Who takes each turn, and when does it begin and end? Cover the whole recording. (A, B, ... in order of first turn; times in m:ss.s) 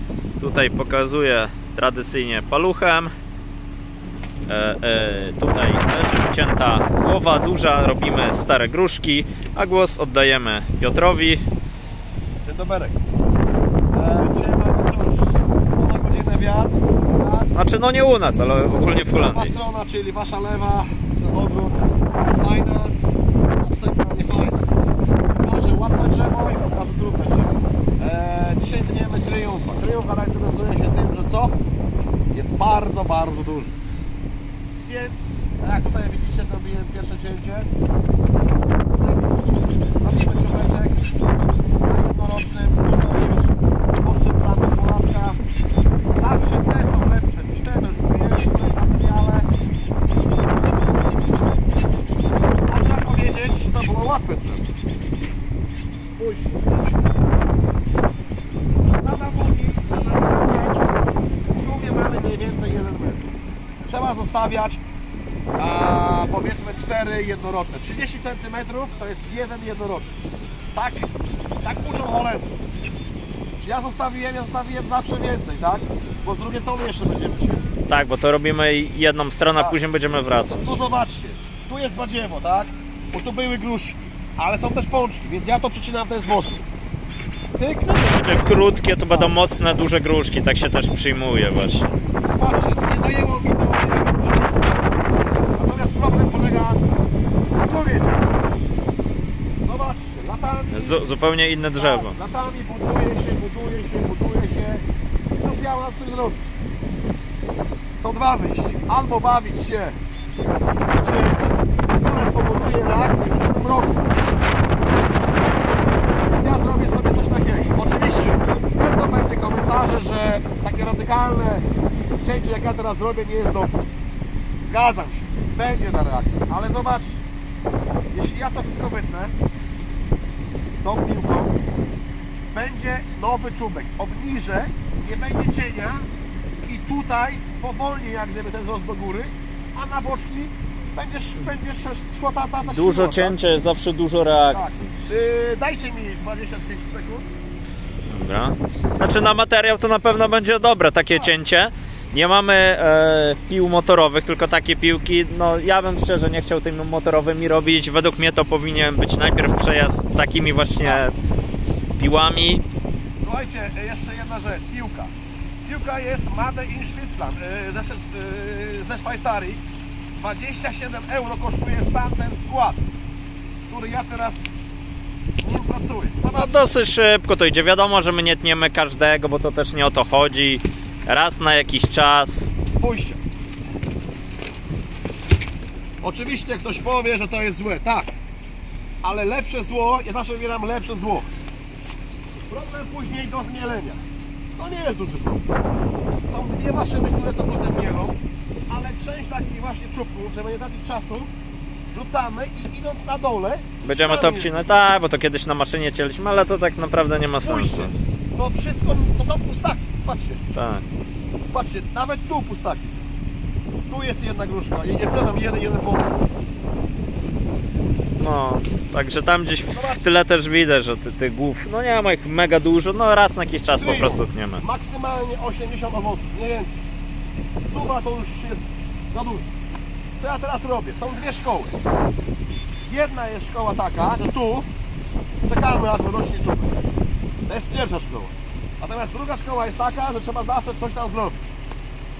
0:00.4-0:03.1 A
0:04.5-0:11.4 A
0:12.4-0:13.0 B
0:13.9-0:17.6 B
0:17.5-0:19.5 A
0:19.1-0:22.9 B
0:23.6-0:24.6 B
0:25.4-0:31.5 B
0:32.3-0:33.8 B
0:34.8-0:37.7 B
0:38.9-0:39.5 B
0:40.0-0:41.0 B
0:41.8-0:45.4 B
0:46.1-0:49.5 B
0:52.7-0:54.7 B
0:56.2-0:56.8 B
0:59.0-1:00.9 B
1:01.4-1:03.3 B
1:03.8-1:04.8 B
1:05.6-1:10.1 B
1:10.7-1:12.5 B
1:13.6-1:17.6 B
1:17.9-1:20.7 A
1:20.6-1:26.6 B
1:27.5-1:29.4 B
1:28.0-1:31.9 A
1:32.3-1:36.8 B
1:37.6-1:38.3 B
1:39.6-1:41.1 B
1:40.7-1:42.2 A
1:41.8-1:44.8 B
1:45.4-1:46.6 B
1:48.0-1:50.0 B
1:50.8-1:54.0 B
1:54.9-1:55.6 B
1:56.2-2:01.6 B
2:02.2-2:03.8 B
2:04.6-2:07.2 B
2:08.1-2:09.3 B
2:10.8-2:11.5 B
2:12.5-2:16.1 B
2:16.6-2:23.4 B
2:22.6-2:24.9 A
2:24.5-2:27.3 B
2:28.1-2:41.1 A
2:42.0-2:42.6 A
2:43.2-2:45.1 B
2:45.6-2:49.6 B
2:50.2-2:52.8 B
2:53.6-2:54.5 B
2:55.4-2:56.7 B
2:56.3-3:02.5 A
3:02.7-3:03.2 B
3:06.0-3:08.1 B
3:09.0-3:11.3 B
3:12.5-3:14.0 B
3:14.6-3:15.5 B
3:16.3-3:18.2 B
3:18.7-3:21.3 B
3:21.9-3:24.7 B
3:23.8-3:27.9 A
3:27.4-3:30.4 B
3:30.5-3:30.8 A
3:31.5-3:33.1 B
3:33.9-3:36.2 B
3:38.2-3:44.6 A
3:39.7-3:40.1 B
3:43.8-3:46.8 B
3:47.6-3:49.5 B
3:50.2-3:51.8 B
3:52.8-3:54.7 B
3:55.4-3:56.8 B
3:57.5-4:01.5 B